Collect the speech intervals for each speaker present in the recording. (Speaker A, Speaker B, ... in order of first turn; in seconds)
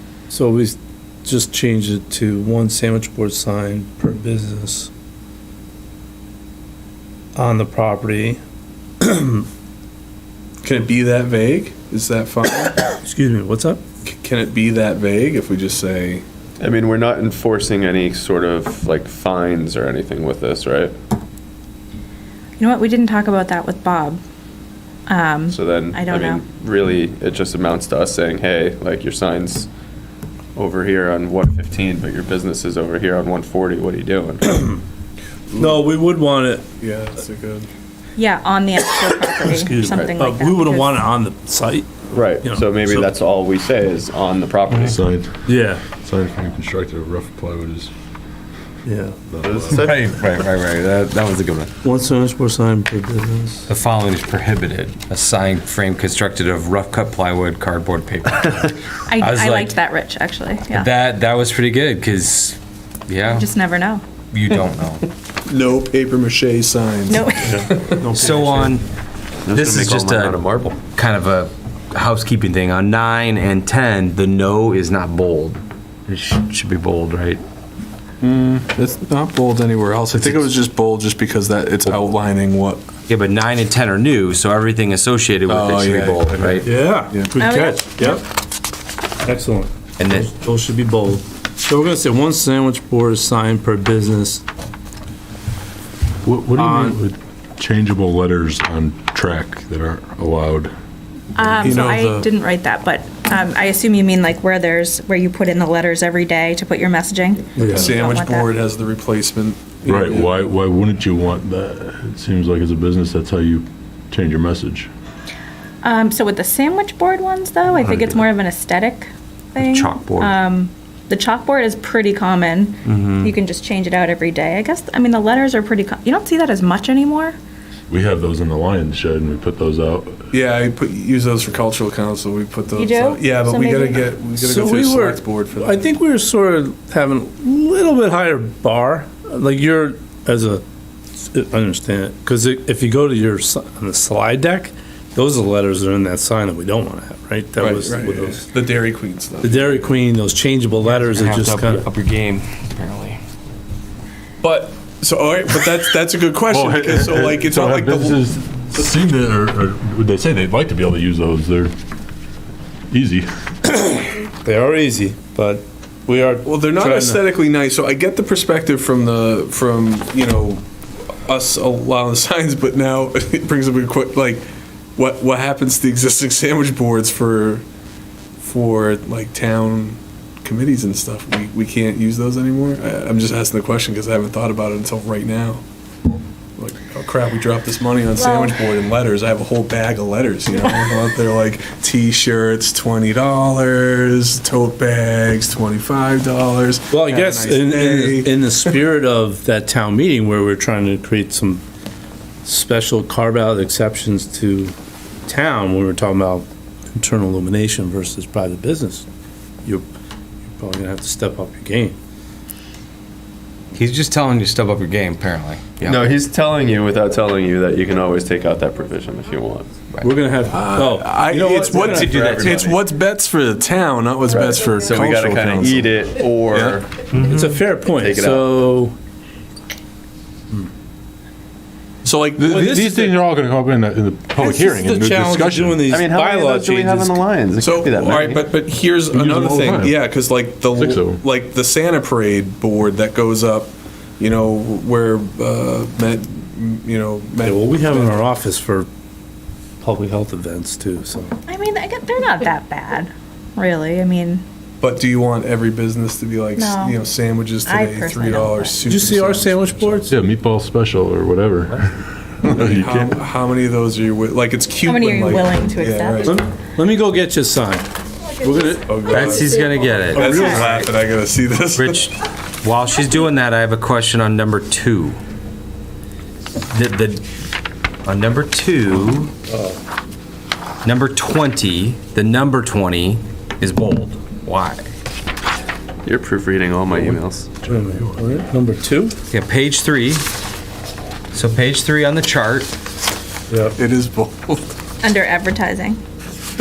Speaker A: 0.3-4.9, 7.4-8.4, 9.0-9.4, 12.9-13.8, 35.6-36.6, 39.4-43.1, 45.5-45.8, 48.9-49.2, 51.8-53.7, 68.0-68.8, 86.6-88.2, 89.2-94.4, 96.6-97.0, 107.5-108.0, 134.4-140.6, 141.2-148.5, 149.4-151.9, 163.7-167.2, 196.9-201.6, 202.4-204.7, 205.3-209.1, 210.5-212.0, 220.0-222.2, 227.2-228.9, 232.5-232.9, 234.4-237.2, 247.4-248.9, 249.8-251.3, 258.9-260.1, 266.2-267.9, 268.4-269.2, 279.5-279.8, 287.6-289.1, 293.5-293.8
Speaker B: 10.6-12.9, 14.1-16.2, 36.8-37.7, 65.5-68.0, 78.2-82.8, 85.5-87.3, 101.6-102.3, 107.6-110.3, 130.3-135.8, 147.6-149.7, 154.4-158.3, 166.4-170.7, 171.2-177.6, 178.4-185.6, 186.6-198.7, 220.5-225.9, 226.5-226.8, 232.0-233.2, 237.6-248.2, 254.8-260.1, 262.5-266.4, 268.9-272.1, 293.8-294.6
Speaker C: 16.6-20.9, 25.5-29.7, 30.6-34.5, 42.1-45.0, 49.5-50.1, 69.5-70.8, 215.8-219.7, 221.6-222.7, 224.3-226.9, 228.0-228.4, 235.9-238.4, 286.1-287.5
Speaker D: 22.6-24.2, 25.1-26.4, 38.2-41.0, 59.1-60.9, 63.2-64.0, 67.1-67.6, 87.3-88.2, 101.4-108.6, 115.8-127.4, 132.7-134.1, 188.2-188.6, 251.5-254.4, 256.6-257.0, 257.6-258.9, 264.8-266.4, 270.2-270.8, 295.0-296.0
Speaker E: 44.8-47.9, 49.3-49.8, 96.2-100.7, 109.9-114.9, 127.9-130.2, 156.5-161.7, 162.9-163.3, 232.4-235.9, 239.1-240.0, 240.8-241.2, 260.1-263.2, 286.9-288.3
Speaker F: 49.7-51.7, 53.7-59.8, 60.7-62.6, 63.1-63.5, 64.3-65.1, 68.2-68.9, 69.5-77.4, 80.2-80.5, 83.1-86.7, 90.0-90.3, 117.8-118.3, 119.6-120.4, 122.8-123.3, 150.8-153.2, 213.7-216.1, 221.8-222.6, 227.1-227.4, 269.1-270.9, 271.8-275.2, 276.7-277.2, 278.1-279.3, 280.8-284.9, 289.3-290.2, 291.3-292.7